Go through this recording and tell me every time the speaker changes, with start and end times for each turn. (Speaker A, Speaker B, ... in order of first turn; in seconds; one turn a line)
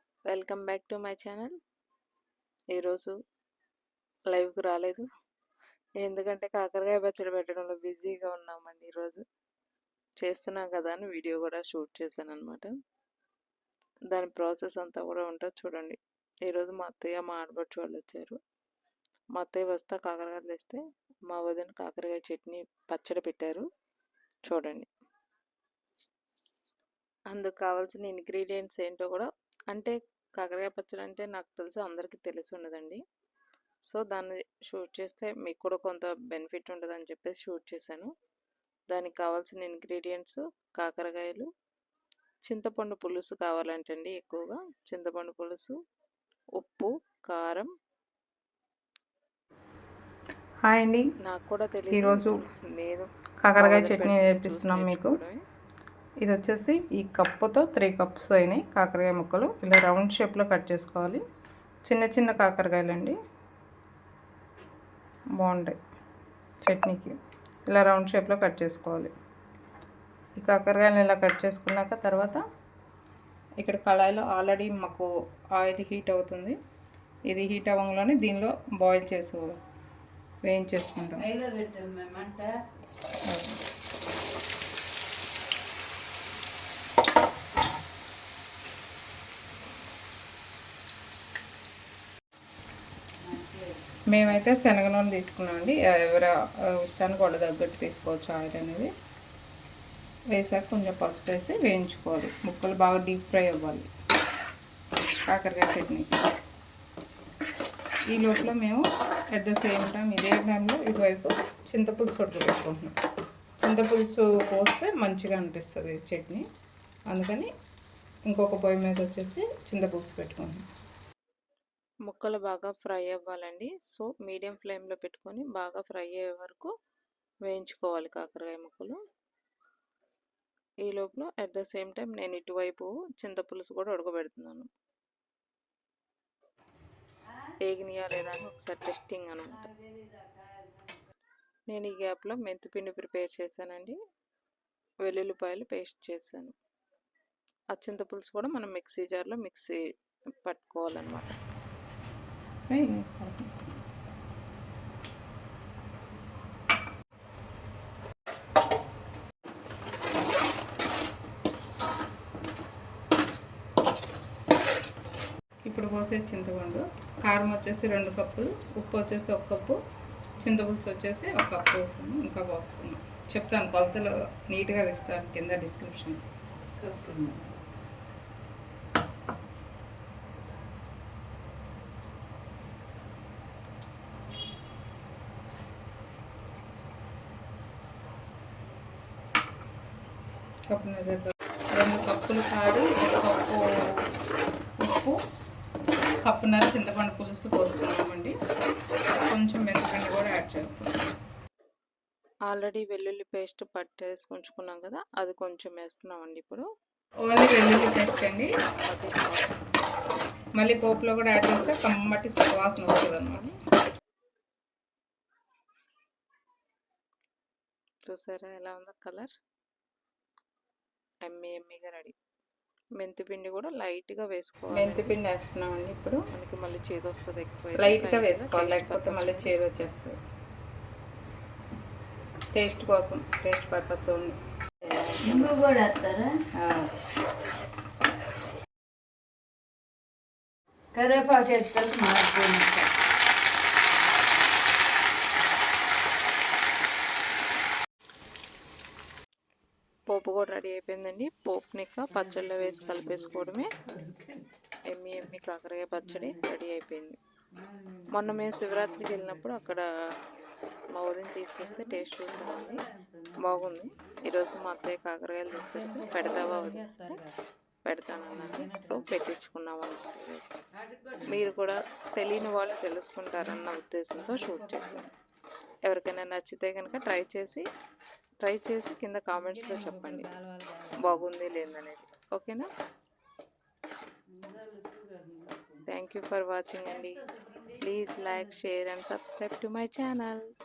Speaker A: 0.3-1.6
Speaker A: 2.7-3.1
Speaker A: 4.3-5.1
Speaker A: 6.0-9.2
Speaker A: 10.2-12.7
Speaker A: 14.1-18.4
Speaker A: 19.4-23.7
Speaker A: 24.5-24.9
Speaker A: 27.3-33.0
Speaker A: 33.9-38.1
Speaker A: 38.9-41.5
Speaker A: 42.5-45.8
Speaker A: 46.6-47.7
Speaker B: 50.6-51.1
Speaker A: 51.2-55.4
Speaker B: 51.9-52.4
Speaker B: 53.4-55.2
Speaker B: 56.2-61.2
Speaker B: 61.9-63.2
Speaker B: 65.4-65.8
Speaker B: 66.7-67.1
Speaker B: 67.7-69.1
Speaker B: 70.4-72.4
Speaker B: 73.6-76.6
Speaker B: 77.3-79.5
Speaker B: 80.5-81.2
Speaker C: 81.2-82.5
Speaker B: 83.3-83.6
Speaker C: 93.2-93.8
Speaker B: 94.1-98.9
Speaker B: 100.3-103.9
Speaker B: 105.3-106.1
Speaker B: 108.1-112.9
Speaker B: 113.6-116.4
Speaker B: 117.1-117.5
Speaker B: 118.3-120.6
Speaker A: 122.1-126.7
Speaker A: 127.5-129.0
Speaker A: 130.8-134.7
Speaker A: 137.6-139.7
Speaker C: 139.8-140.9
Speaker A: 141.7-144.0
Speaker A: 145.0-146.6
Speaker A: 147.7-149.8
Speaker A: 150.4-151.4
Speaker B: 152.7-153.6
Speaker B: 165.7-169.8
Speaker B: 170.4-176.2
Speaker C: 176.8-177.5
Speaker B: 190.7-194.1
Speaker B: 194.8-195.2
Speaker B: 196.2-198.3
Speaker B: 199.2-201.0
Speaker A: 202.5-206.7
Speaker B: 207.2-208.5
Speaker A: 208.7-209.8
Speaker B: 210.6-213.4
Speaker A: 212.5-213.6
Speaker A: 218.1-219.3
Speaker A: 221.2-222.1
Speaker A: 223.0-225.2
Speaker B: 224.7-226.2
Speaker A: 226.3-229.6
Speaker B: 227.8-230.2
Speaker B: 232.6-234.4
Speaker C: 235.1-236.4
Speaker B: 236.6-236.8
Speaker C: 240.9-242.9
Speaker A: 250.1-253.7
Speaker C: 252.1-254.3
Speaker A: 254.9-257.2
Speaker C: 256.1-256.4
Speaker C: 257.6-259.6
Speaker A: 258.1-259.9
Speaker A: 260.9-262.9
Speaker C: 261.6-263.8
Speaker A: 263.4-267.2
Speaker C: 265.5-267.4
Speaker A: 267.9-270.6
Speaker C: 268.3-269.1
Speaker C: 270.8-271.6
Speaker A: 271.3-275.1
Speaker C: 274.2-275.1
Speaker A: 275.9-277.7
Speaker A: 278.4-280.3
Speaker C: 279.3-281.3
Speaker A: 281.0-282.7
Speaker C: 284.3-285.9
Speaker A: 285.9-287.2
Speaker C: 286.9-288.6
Speaker A: 287.8-290.4